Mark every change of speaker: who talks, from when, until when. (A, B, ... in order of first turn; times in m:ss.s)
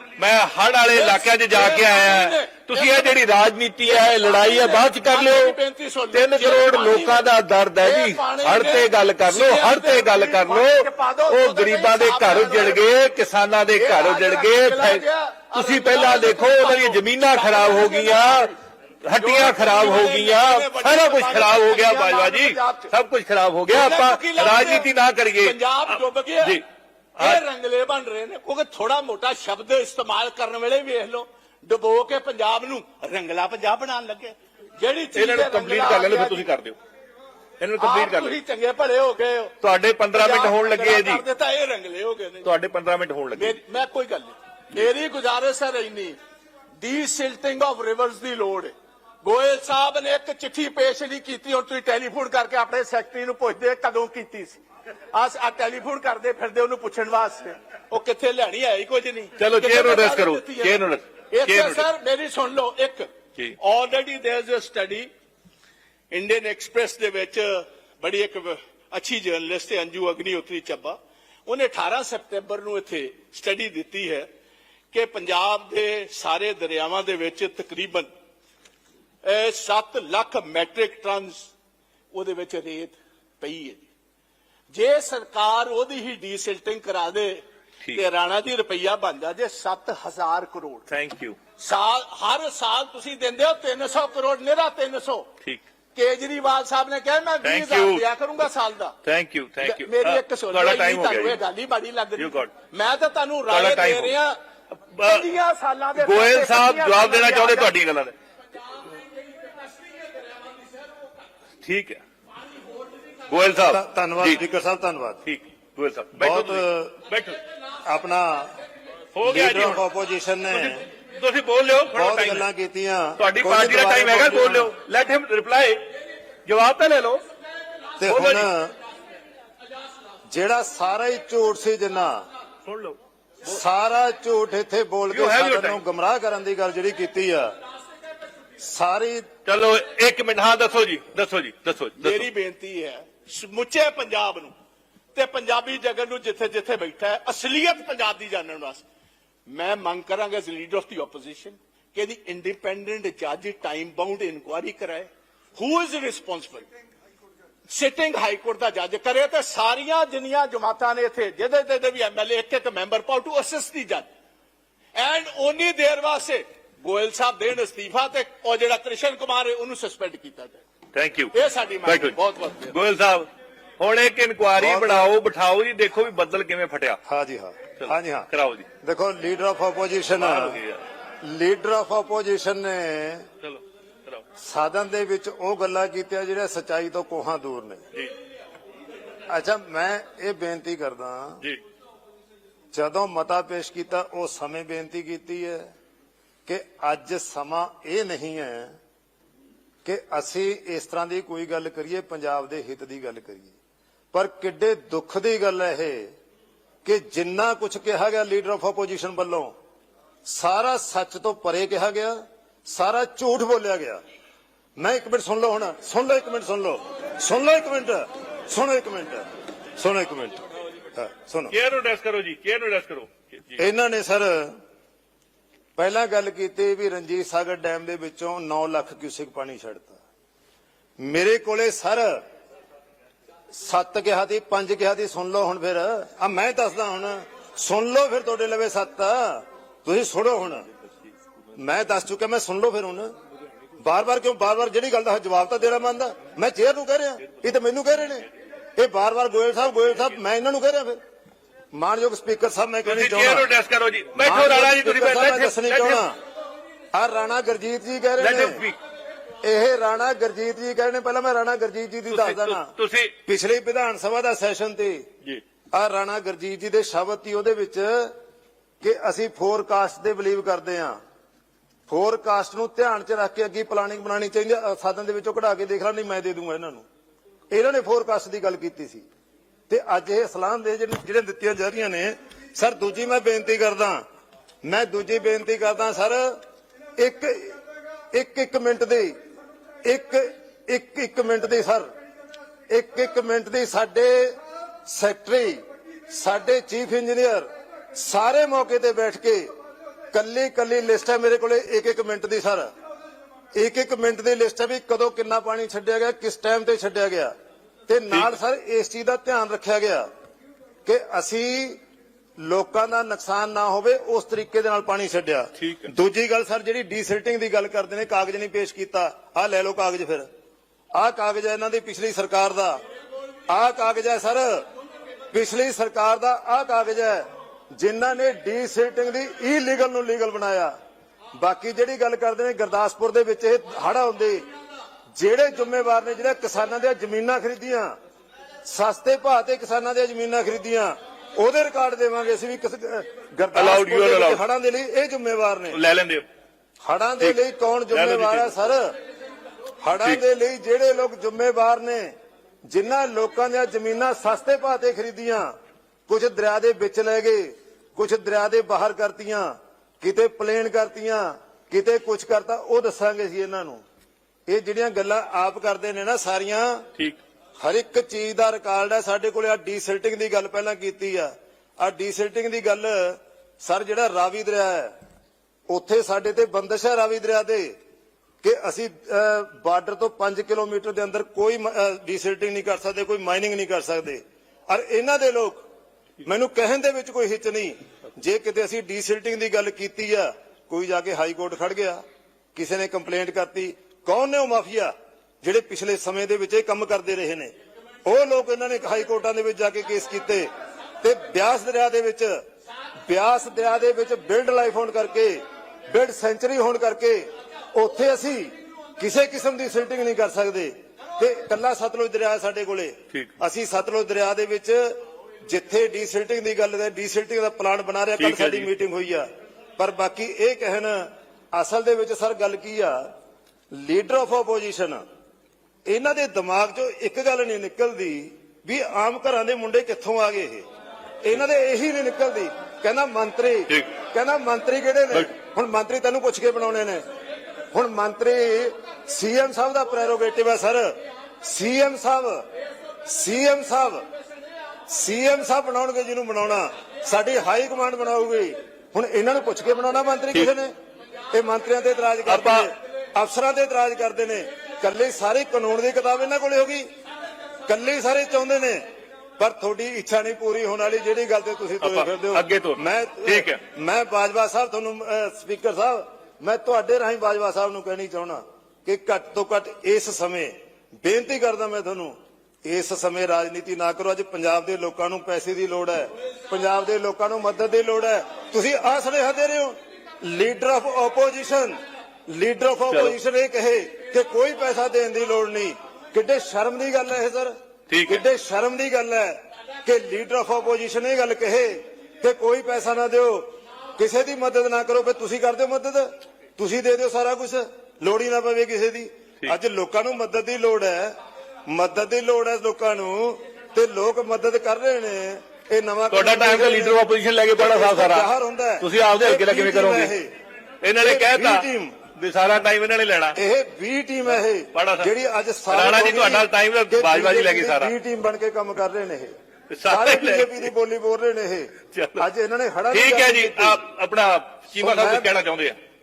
0:00.2-0:05.6 A
0:00.9-0:03.2 B
0:03.9-0:07.3 B
0:06.1-0:15.0 A
0:07.8-0:12.8 B
0:13.8-0:18.6 B
0:15.6-0:18.5 A
0:19.1-0:25.6 A
0:19.2-0:22.9 B
0:23.7-0:26.6 B
0:27.2-0:27.4 A
0:27.2-0:36.5 B
0:35.2-0:36.8 A
0:37.6-0:38.4 A
0:37.8-0:39.5 B
0:39.6-0:41.2 A
0:40.1-0:42.5 B
0:42.4-0:43.6 A
0:43.4-0:46.2 B
0:46.8-0:54.6 B
0:55.1-1:05.1 B
0:59.4-1:01.9 A
1:06.1-1:14.3 B
1:14.9-1:18.1 B
1:19.2-1:21.5 B
1:22.1-1:23.9 B
1:24.7-1:30.8 B
1:30.9-1:31.4 A
1:31.6-1:35.3 B
1:36.0-1:39.0 B
1:37.4-1:38.0 A
1:39.0-1:41.4 A
1:39.6-1:44.4 B
1:42.2-1:42.5 A
1:43.5-1:44.2 A
1:45.0-1:45.3 A
1:45.0-1:47.7 B
1:46.0-1:48.1 A
1:49.5-1:50.7 B
1:51.6-1:52.0 A
1:53.3-1:54.4 A
1:53.7-1:55.2 C
1:55.2-1:57.4 A
1:56.2-1:57.0 C
1:57.8-1:58.6 C
1:59.1-1:59.9 A
1:59.2-2:00.8 C
2:00.5-2:02.5 A
2:01.9-2:04.7 C
2:03.2-2:05.9 A
2:06.4-2:07.2 A
2:08.0-2:08.5 A
2:08.0-2:08.7 C
2:10.3-2:12.2 C
2:12.7-2:13.0 A
2:13.4-2:17.5 C
2:15.1-2:15.8 A
2:18.6-2:19.3 C
2:19.5-2:22.3 A
2:22.0-2:24.5 B
2:25.1-2:28.8 B
2:29.5-2:36.7 B
2:37.7-2:44.1 B
2:45.0-2:50.6 B
2:50.9-2:52.2 A
2:51.3-2:52.8 B
2:52.7-2:53.3 A
2:53.8-2:57.0 A
2:54.6-2:55.1 C
2:57.0-2:58.3 C
2:57.8-2:58.7 A
2:58.8-3:00.6 C
3:00.2-3:00.8 A
3:01.2-3:03.3 C
3:03.4-3:04.2 A
3:04.4-3:07.8 C
3:09.3-3:11.4 C
3:12.7-3:15.7 C
3:16.5-3:18.7 C
3:19.8-3:23.6 C
3:24.1-3:26.1 C
3:26.8-3:29.5 C
3:30.2-3:34.0 C
3:34.8-3:39.2 C
3:39.8-3:40.4 C
3:41.0-3:41.6 C
3:41.5-3:43.6 A
3:43.6-3:44.5 C
3:45.8-3:50.0 C
3:51.0-3:52.2 C
3:53.5-4:00.6 C
4:01.6-4:03.1 C
4:03.8-4:11.0 C
4:11.7-4:13.5 C
4:12.8-4:16.0 A
4:14.2-4:16.2 C
4:16.9-4:18.6 C
4:18.2-4:18.8 A
4:19.4-4:22.7 C
4:22.1-4:23.1 A
4:23.3-4:25.0 C
4:25.7-4:28.1 C
4:28.8-4:31.0 C
4:31.9-4:36.8 C
4:37.5-4:39.0 C
4:39.7-4:44.0 C
4:44.6-4:46.4 C
4:47.0-4:47.6 C
4:48.1-4:49.1 C
4:49.8-4:51.9 C
4:52.7-4:59.5 C
5:00.1-5:02.7 C
5:03.6-5:07.3 C
5:07.9-5:10.1 C
5:08.1-5:08.4 A
5:10.9-5:11.8 C
5:12.4-5:20.3 C
5:15.6-5:15.9 A
5:20.9-5:22.8 C
5:23.5-5:24.6 C
5:25.3-5:30.7 C
5:31.4-5:34.4 C
5:35.2-5:37.9 C
5:38.6-5:45.8 C
5:43.5-5:44.4 A
5:45.7-5:46.2 A
5:46.8-5:48.9 C
5:47.9-5:48.7 A
5:49.8-5:52.1 C
5:52.7-5:55.5 C
5:56.1-6:03.8 C
6:04.5-6:06.8 C
6:07.6-6:14.9 C
6:15.7-6:17.8 C
6:18.4-6:25.6 C
6:26.2-6:32.0 C
6:32.6-6:37.5 C
6:38.0-6:40.5 C
6:41.0-6:42.3 C
6:43.1-6:54.9 C
6:55.5-6:59.3 C
6:58.2-6:58.7 A
6:59.8-7:03.0 C
7:03.7-7:05.0 C
7:05.9-7:10.6 C
7:11.2-7:17.0 C
7:17.7-7:20.9 C
7:21.4-7:22.4 C
7:23.1-7:24.0 C
7:24.9-7:30.7 C
7:31.3-7:36.9 C
7:32.3-7:32.7 A
7:37.7-7:38.8 C
7:39.4-8:01.8 C
7:41.8-7:43.6 A
8:02.3-8:07.5 C
8:02.9-8:03.2 A
8:07.9-8:08.2 A
8:08.1-8:21.1 C
8:21.7-8:27.0 C
8:26.1-8:28.3 A
8:27.6-8:30.3 C
8:28.8-8:30.1 A
8:30.8-8:33.4 A
8:31.0-8:32.0 C
8:33.4-8:39.3 C
8:34.7-8:35.1 A
8:35.7-8:37.9 A
8:39.7-8:40.7 A
8:39.8-8:43.8 C
8:41.9-8:42.3 A
8:42.9-8:45.8 A
8:44.8-8:45.3 C